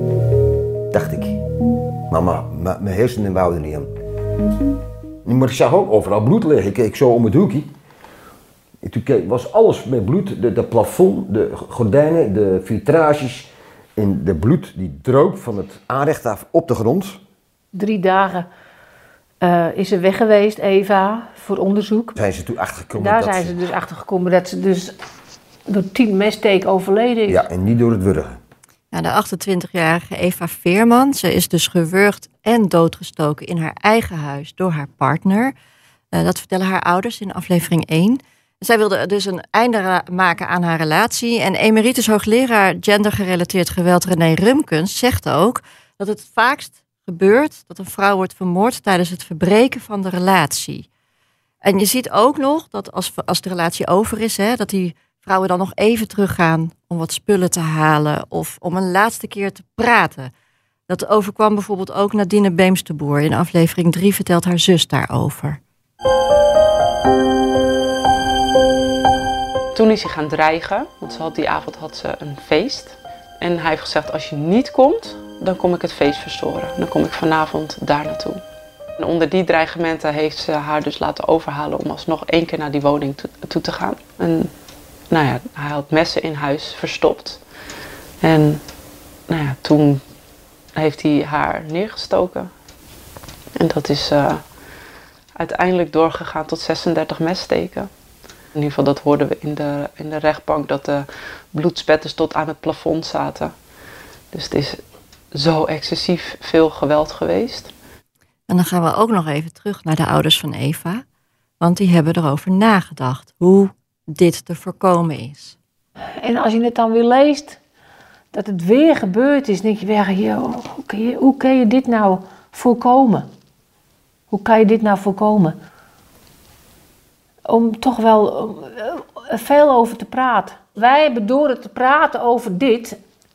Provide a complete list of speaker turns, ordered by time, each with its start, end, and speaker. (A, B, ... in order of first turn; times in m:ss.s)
0:00.9-0:01.4 A
0:02.1-0:03.9 A
0:05.2-0:07.7 A
0:08.8-0:17.2 A
0:17.7-0:18.5 B
0:19.4-0:22.1 B
0:22.1-0:23.6 A
0:23.0-0:24.9 B
0:25.7-0:27.4 B
0:27.3-0:28.4 A
0:28.9-0:35.5 C
0:36.1-0:50.9 C
0:51.6-1:00.3 C
1:00.9-1:05.6 C
1:09.7-1:18.4 D
1:19.0-1:24.5 D
1:25.1-1:27.4 D
1:28.2-1:28.6 D
1:29.3-1:30.0 D
1:30.7-1:32.5 D
1:33.6-1:34.6 D
1:35.3-1:37.9 D
1:38.5-1:43.6 D
1:44.3-1:47.7 D
1:48.5-1:51.0 C
1:51.6-1:55.5 C
1:56.2-1:57.6 B
1:58.3-2:03.3 B
2:04.3-2:05.6 B
2:07.4-2:13.0 B